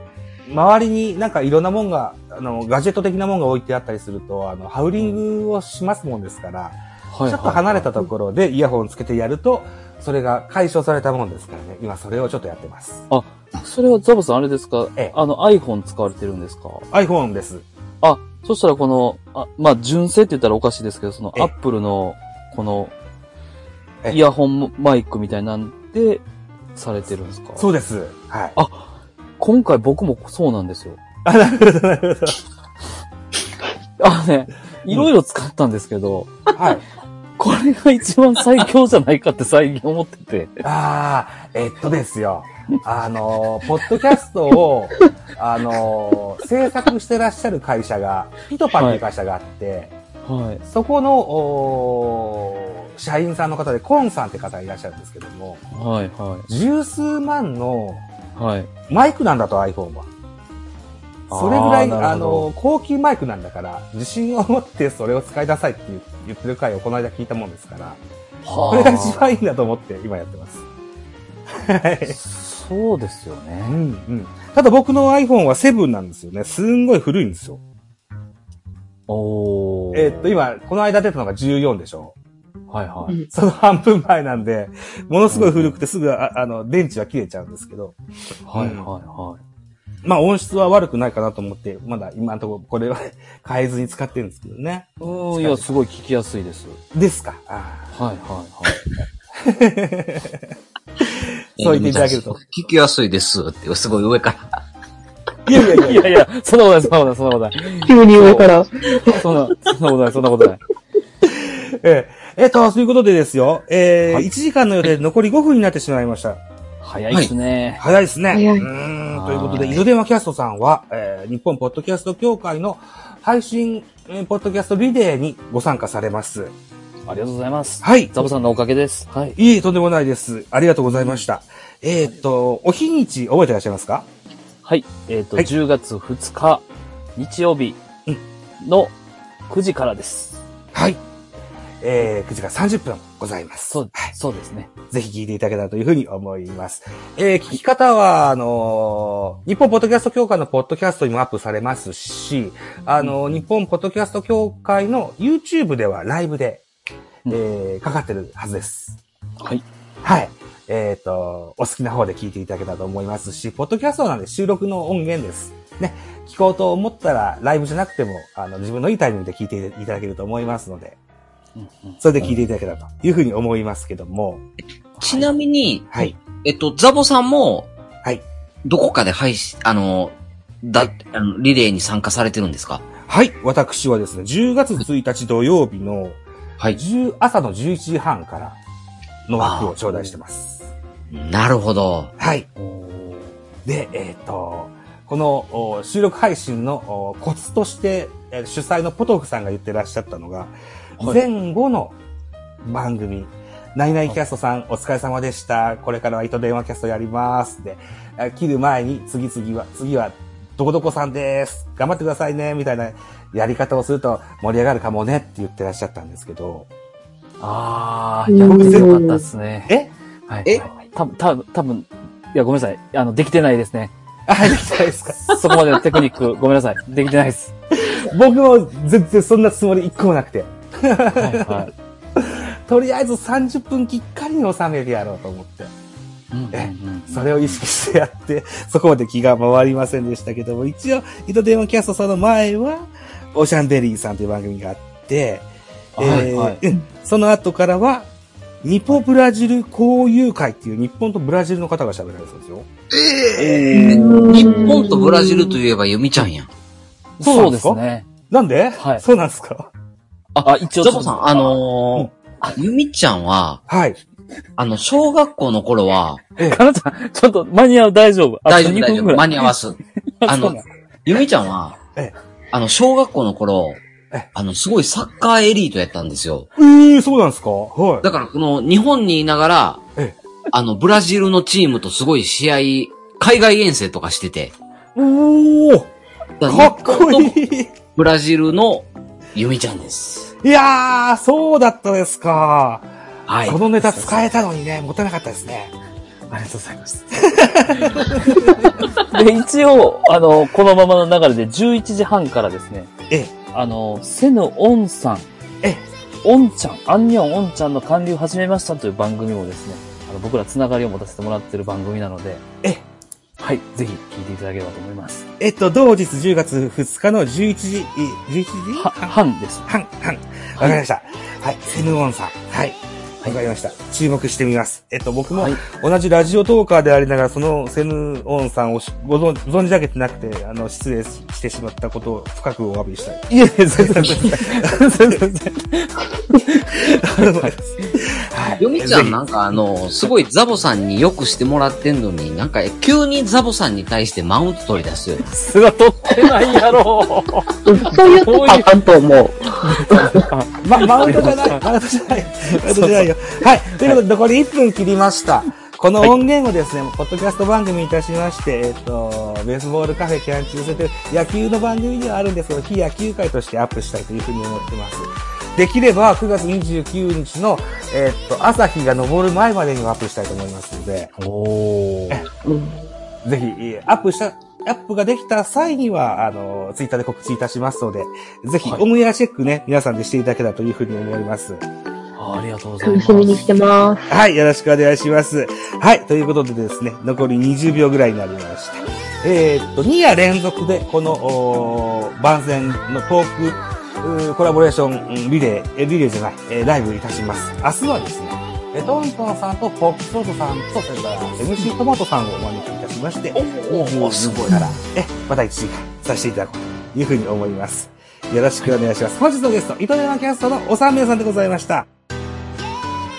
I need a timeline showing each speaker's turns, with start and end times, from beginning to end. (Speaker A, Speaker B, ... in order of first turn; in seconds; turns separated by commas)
Speaker A: 0.5-13.1, Speaker B: 7.1-8.1, Speaker B: 13.1-16.8, Speaker A: 16.9-17.6, Speaker B: 18.0-22.9, Speaker B: 24.1-26.2, Speaker B: 26.7-27.7, Speaker A: 27.6-28.6, Speaker B: 28.6-28.9, Speaker B: 29.4-31.0, Speaker A: 31.2-32.4, Speaker B: 34.0-36.5, Speaker A: 36.5-36.8, Speaker B: 37.4-40.6, Speaker A: 40.6-49.9, Speaker B: 48.7-49.0, Speaker B: 50.2-50.6, Speaker A: 50.6-55.6, Speaker B: 55.7-56.5, Speaker A: 56.5-58.0, Speaker B: 58.4-58.7, Speaker A: 58.9-60.1, Speaker B: 61.3-62.5, Speaker A: 61.3-68.0, Speaker B: 68.4-69.2, Speaker A: 68.7-70.6, Speaker A: 71.5-72.2, Speaker B: 72.1-73.8, Speaker A: 73.7-77.6, Speaker B: 79.1-80.3, Speaker A: 79.9-82.1, Speaker B: 82.7-83.2, Speaker A: 83.3-88.0, Speaker B: 85.3-85.8, Speaker B: 88.5-89.4, Speaker A: 88.5-88.9, Speaker A: 90.0-95.8, Speaker B: 95.0-96.8, Speaker A: 96.9-97.9, Speaker B: 97.9-98.8, Speaker A: 99.3-100.4, Speaker A: 101.0-102.4, Speaker C: 101.6-104.6, Speaker A: 105.5-106.2, Speaker B: 105.5-108.5, Speaker D: 107.8-109.2, Speaker B: 109.0-110.6, Speaker A: 111.3-116.4, Speaker B: 116.8-117.8, Speaker A: 117.8-126.5, Speaker D: 118.3-118.7, Speaker B: 119.1-119.8, Speaker B: 127.1-129.4, Speaker A: 127.8-128.2, Speaker A: 129.4-134.1, Speaker B: 134.6-136.6, Speaker B: 137.2-137.8, Speaker B: 138.6-138.9, Speaker B: 139.5-140.4, Speaker A: 140.7-141.0, Speaker A: 141.8-144.1, Speaker B: 143.7-144.7, Speaker A: 144.9-156.6, Speaker B: 153.0-153.4, Speaker A: 157.3-159.0, Speaker A: 160.0-170.9, Speaker B: 171.6-172.0, Speaker A: 172.0-174.4, Speaker C: 175.0-177.7, Speaker C: 178.6-182.8, Speaker A: 183.1-186.2, Speaker A: 186.7-188.6, Speaker A: 189.3-190.7, Speaker C: 189.4-189.7, Speaker C: 191.1-192.1, Speaker A: 192.2-192.5, Speaker B: 192.6-193.3, Speaker A: 193.6-201.9, Speaker A: 202.6-216.7, Speaker B: 217.4-219.7, Speaker D: 218.3-219.3, Speaker A: 218.4-218.9, Speaker B: 220.3-223.9, Speaker A: 224.3-225.3, Speaker B: 225.3-227.5, Speaker A: 227.8-235.7, Speaker B: 231.1-231.7, Speaker B: 236.3-237.6, Speaker A: 236.5-248.1, Speaker B: 246.0-246.6, Speaker A: 248.6-253.6, Speaker C: 253.3-256.5, Speaker B: 253.4-254.8, Speaker D: 253.7-255.6, Speaker B: 257.2-258.1, Speaker A: 257.2-257.8, Speaker A: 258.3-259.7, Speaker B: 258.8-259.0, Speaker C: 260.3-263.6, Speaker B: 260.4-261.5, Speaker A: 263.7-264.0, Speaker C: 264.6-266.2, Speaker B: 266.4-269.5, Speaker C: 268.4-271.8, Speaker B: 270.2-270.6, Speaker C: 272.5-273.8, Speaker C: 274.3-276.5, Speaker A: 276.6-278.0, Speaker C: 278.0-279.8, Speaker C: 280.5-284.5, Speaker A: 284.9-285.9, Speaker C: 286.4-287.4, Speaker A: 286.4-287.7, Speaker C: 287.9-290.3, Speaker A: 290.4-292.9, Speaker C: 293.3-293.6, Speaker A: 293.4-295.7, Speaker B: 293.8-294.1, Speaker B: 296.3-297.1, Speaker A: 297.1-298.8, Speaker B: 297.9-298.4, Speaker B: 299.0-302.9, Speaker B: 303.5-305.3, Speaker B: 306.2-312.4, Speaker B: 313.4-315.2, Speaker A: 315.4-319.1, Speaker B: 318.7-319.7, Speaker A: 319.7-334.8, Speaker B: 325.3-325.6, Speaker B: 333.3-337.5, Speaker A: 336.7-339.2, Speaker C: 338.6-345.2, Speaker B: 345.2-348.8, Speaker D: 346.1-346.4, Speaker D: 347.6-350.3, Speaker B: 349.6-351.6, Speaker A: 350.6-371.1, Speaker B: 352.4-353.1, Speaker B: 371.2-372.2, Speaker D: 372.4-372.9, Speaker A: 373.2-381.6, Speaker B: 382.1-383.5, Speaker D: 382.8-384.1, Speaker A: 384.1-411.9, Speaker C: 403.3-404.7